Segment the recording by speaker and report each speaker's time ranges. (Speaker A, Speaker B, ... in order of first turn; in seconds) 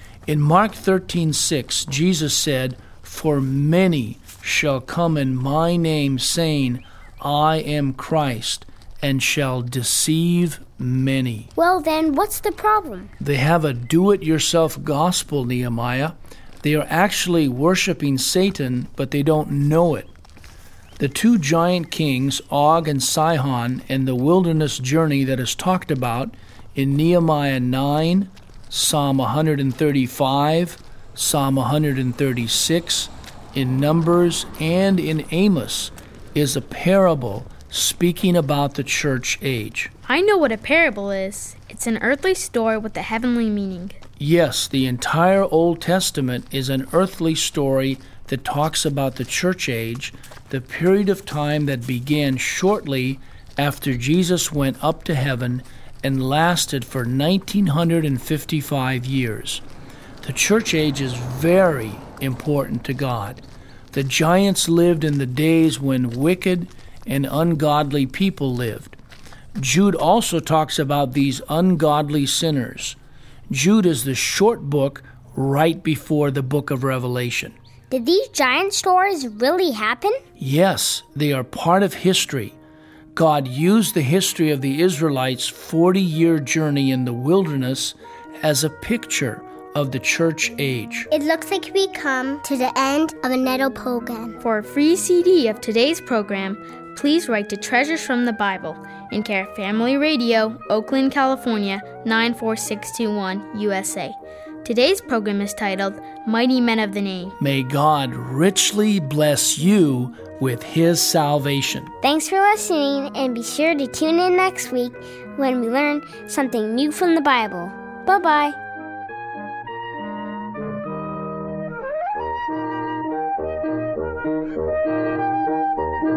Speaker A: 0.3-11.5, 13.2-20.1, 21.0-39.9, 44.2-59.6, 60.2-63.4, 63.9-69.0, 69.6-73.0, 73.5-77.5, 80.4-82.6, 83.2-91.1, 107.4-111.9
Speaker B: 11.6-13.1, 77.9-80.2, 91.1-94.4, 112.0-118.6
Speaker C: 40.1-44.0, 94.4-107.3